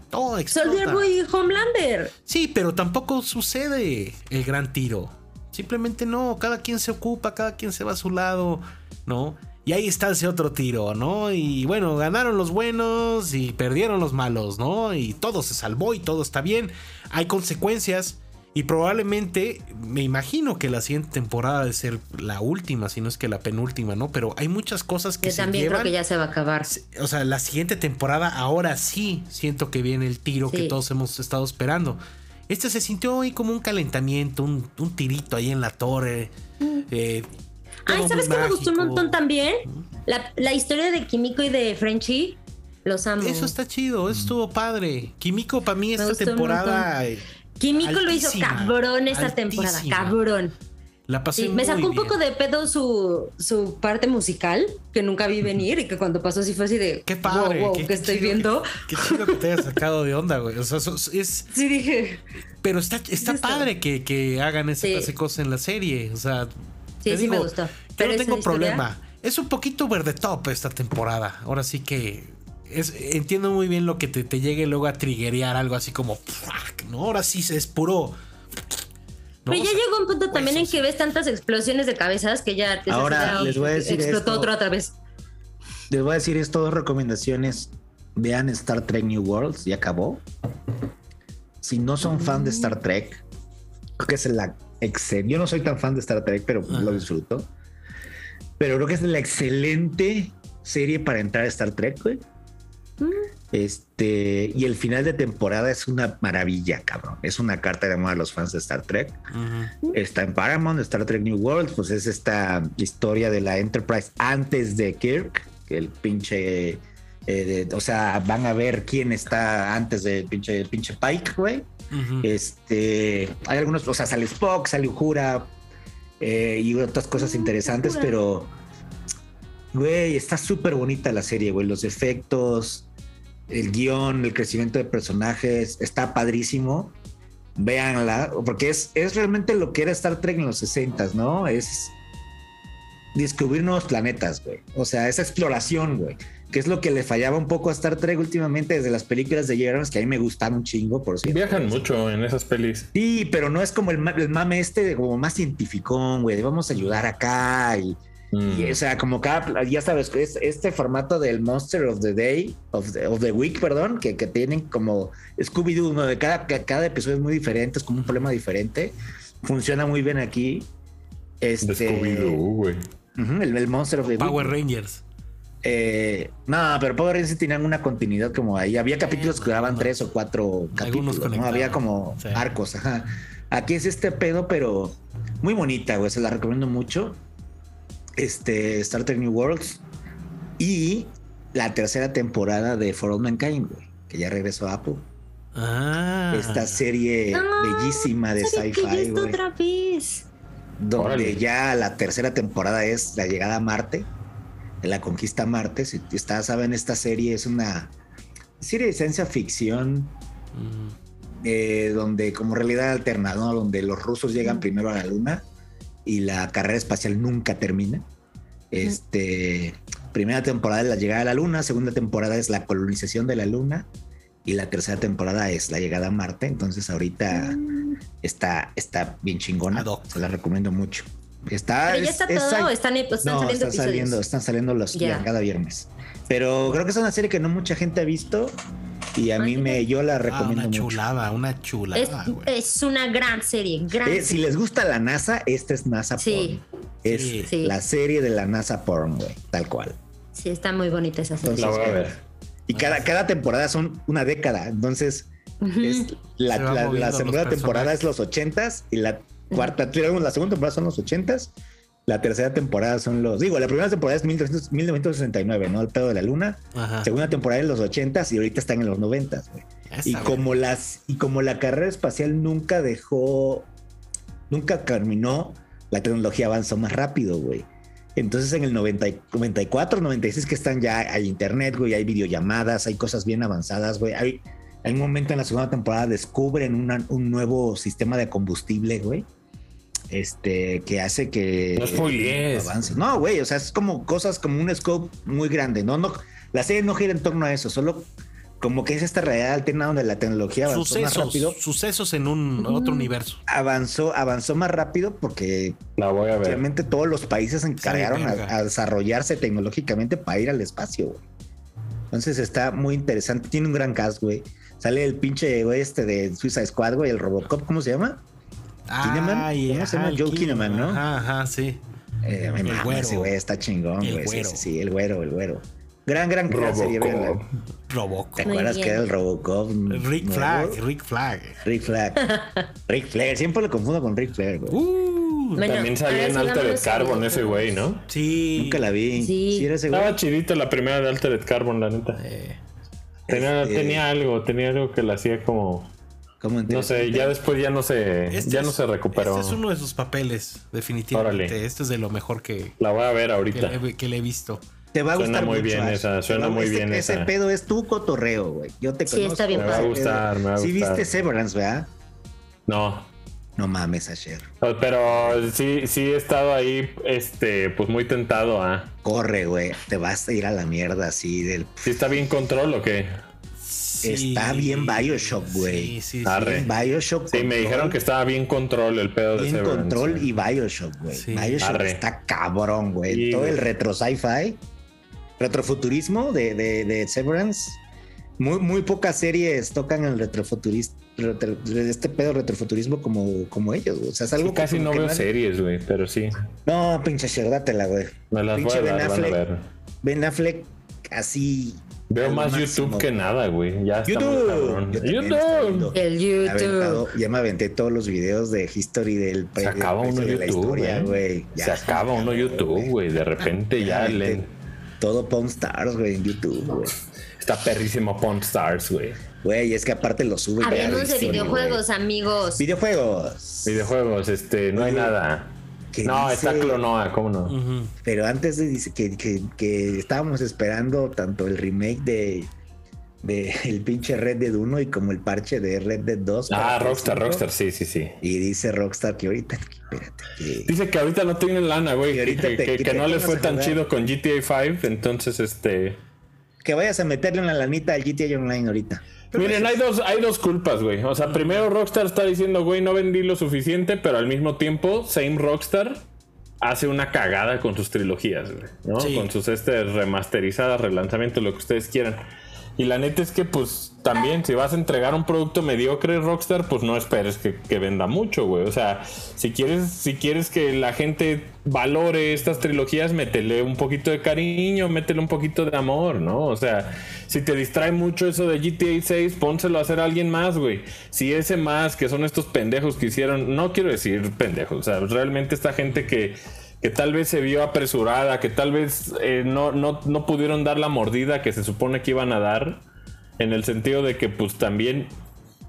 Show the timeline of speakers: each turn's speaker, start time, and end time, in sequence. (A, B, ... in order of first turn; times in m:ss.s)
0:00.1-0:01.1 A
0:00.5-0:02.1 B
0:02.3-0:25.9 A
0:25.2-0:26.7 B
0:26.7-0:36.3 A
0:30.5-0:30.8 B
0:36.9-0:37.3 A
0:37.9-0:39.8 A
0:37.9-0:43.6 B
0:43.2-0:50.2 A
0:46.0-0:46.9 B
0:47.6-0:50.6 B
0:51.1-0:52.2 A
0:51.4-0:59.6 B
0:57.1-1:01.5 A
1:01.5-1:02.2 B
1:02.6-1:06.5 A
1:03.2-1:03.7 B
1:04.8-1:05.1 B
1:07.0-1:08.8 B
1:07.0-1:18.2 A
1:19.4-1:20.9 A
1:19.5-1:25.0 B
1:22.9-1:24.6 C
1:25.9-1:30.2 C
1:31.6-1:33.2 C
1:32.1-1:32.7 B
1:34.0-1:37.5 C
1:36.7-1:37.0 A
1:38.6-1:42.2 C
1:43.0-1:43.3 B
1:43.5-1:49.2 C
1:49.3-1:49.7 A
1:49.9-2:01.7 C
2:01.9-2:02.3 A
2:02.2-2:05.5 C
2:06.2-2:08.5 C
2:07.2-2:08.1 B
2:09.7-2:12.9 C
2:13.5-2:17.0 C
2:17.6-2:22.0 C
2:23.2-2:31.9 C
2:31.3-2:32.9 D
2:32.9-2:50.7 C
2:38.3-2:38.8 D
2:51.4-2:52.4 C
2:51.6-2:52.9 D
2:53.2-2:54.6 C
2:54.1-2:55.0 A
2:55.6-3:07.2 C
2:59.0-3:00.0 A
3:00.8-3:02.5 A
3:08.2-3:09.8 C
3:10.6-3:15.1 C
3:15.6-3:16.8 A
3:16.3-3:19.4 C
3:17.3-3:20.3 B
3:20.8-3:24.1 C
3:21.0-3:21.4 D
3:24.8-3:27.9 C
3:28.6-3:30.2 C
3:30.5-3:31.0 A
3:31.4-3:35.4 C
3:36.0-3:38.0 C
3:38.7-3:43.9 C
3:44.4-3:47.6 C
3:47.3-3:48.0 B
3:48.2-3:58.6 C
3:49.7-3:50.2 A
3:51.9-3:54.2 B
3:54.9-3:55.3 B
3:59.2-4:01.0 C
3:59.4-3:59.8 B
4:00.3-4:02.5 A
4:02.0-4:04.4 B
4:04.0-4:10.0 C
4:06.2-4:06.6 B
4:07.0-4:07.5 A
4:07.5-4:07.8 B
4:10.4-4:12.0 B
4:11.4-4:21.5 C
4:11.6-4:12.2 D
4:12.8-4:13.1 A
4:15.6-4:16.1 B
4:16.5-4:18.0 A
4:22.1-4:33.7 C
4:26.7-4:27.1 A
4:29.9-4:30.5 A
4:34.5-4:49.3 C
4:50.1-4:58.1 C
4:51.8-4:52.8 D
4:58.6-5:01.6 C
5:00.7-5:03.4 A
5:02.6-5:03.1 B
5:03.5-5:05.8 C
5:06.0-5:06.6 D
5:06.4-5:11.2 C
5:07.8-5:08.6 A
5:12.1-5:18.2 C
5:18.9-5:21.8 A
5:19.0-5:21.0 C
5:22.2-5:27.4 C
5:22.6-5:23.4 A
5:24.0-5:24.7 A
5:26.5-5:27.5 D
5:27.9-5:28.5 A
5:28.4-5:30.8 C
5:28.4-5:29.1 B
5:29.9-5:31.6 A
5:31.6-5:34.8 C
5:32.3-5:32.5 B
5:34.7-5:35.7 A
5:35.6-5:37.9 B
5:35.6-5:38.1 D
5:38.1-5:38.9 A
5:38.6-5:40.2 C
5:39.2-5:39.7 B
5:39.9-5:42.2 D
5:42.2-5:42.6 A
5:43.3-5:44.0 C
5:43.3-5:45.9 D
5:46.4-5:47.4 C
5:46.7-5:49.6 D
5:48.3-5:52.7 A
5:51.1-5:51.6 D
5:52.8-5:53.8 D
5:53.5-5:54.6 A
5:54.9-6:01.9 C
5:55.2-5:57.3 D
5:59.1-6:00.0 B
5:59.5-6:01.1 D
6:02.7-6:03.1 D
6:03.6-6:04.5 C
6:04.6-6:08.9 D
6:09.0-6:11.9 C
6:11.8-6:13.2 D
6:13.6-6:16.8 A
6:14.0-6:18.0 C
6:16.2-6:16.7 D
6:17.3-6:20.3 D
6:19.4-6:24.6 C
6:21.1-6:21.7 A
6:21.6-6:22.0 D
6:23.1-6:23.6 D
6:25.4-6:27.8 C
6:28.4-6:35.3 C
6:34.4-6:36.4 D
6:36.6-6:39.4 C
6:38.3-6:39.6 D
6:40.0-6:43.1 C
6:42.1-6:46.0 D
6:44.1-6:53.0 C
6:45.9-6:47.0 B
6:49.6-6:54.5 D
6:53.8-6:54.4 C
6:55.0-6:57.0 C
6:57.4-6:59.2 D
6:59.4-7:01.8 C
7:00.6-7:02.6 B
7:00.8-7:01.6 D
7:02.6-7:03.9 C
7:03.6-7:05.5 D
7:04.8-7:05.2 C
7:05.9-7:06.8 C
7:06.0-7:07.6 D
7:07.5-7:07.9 A
7:08.0-7:12.5 C
7:13.2-7:17.4 C
7:16.5-7:18.2 D
7:18.2-7:20.7 C
7:20.7-7:26.0 D
7:22.1-7:23.8 C
7:26.6-7:29.6 C
7:29.3-7:36.0 D
7:29.4-7:29.7 A
7:36.6-7:42.2 D
7:39.0-7:39.3 A
7:42.8-8:12.8 D
8:13.4-8:15.1 D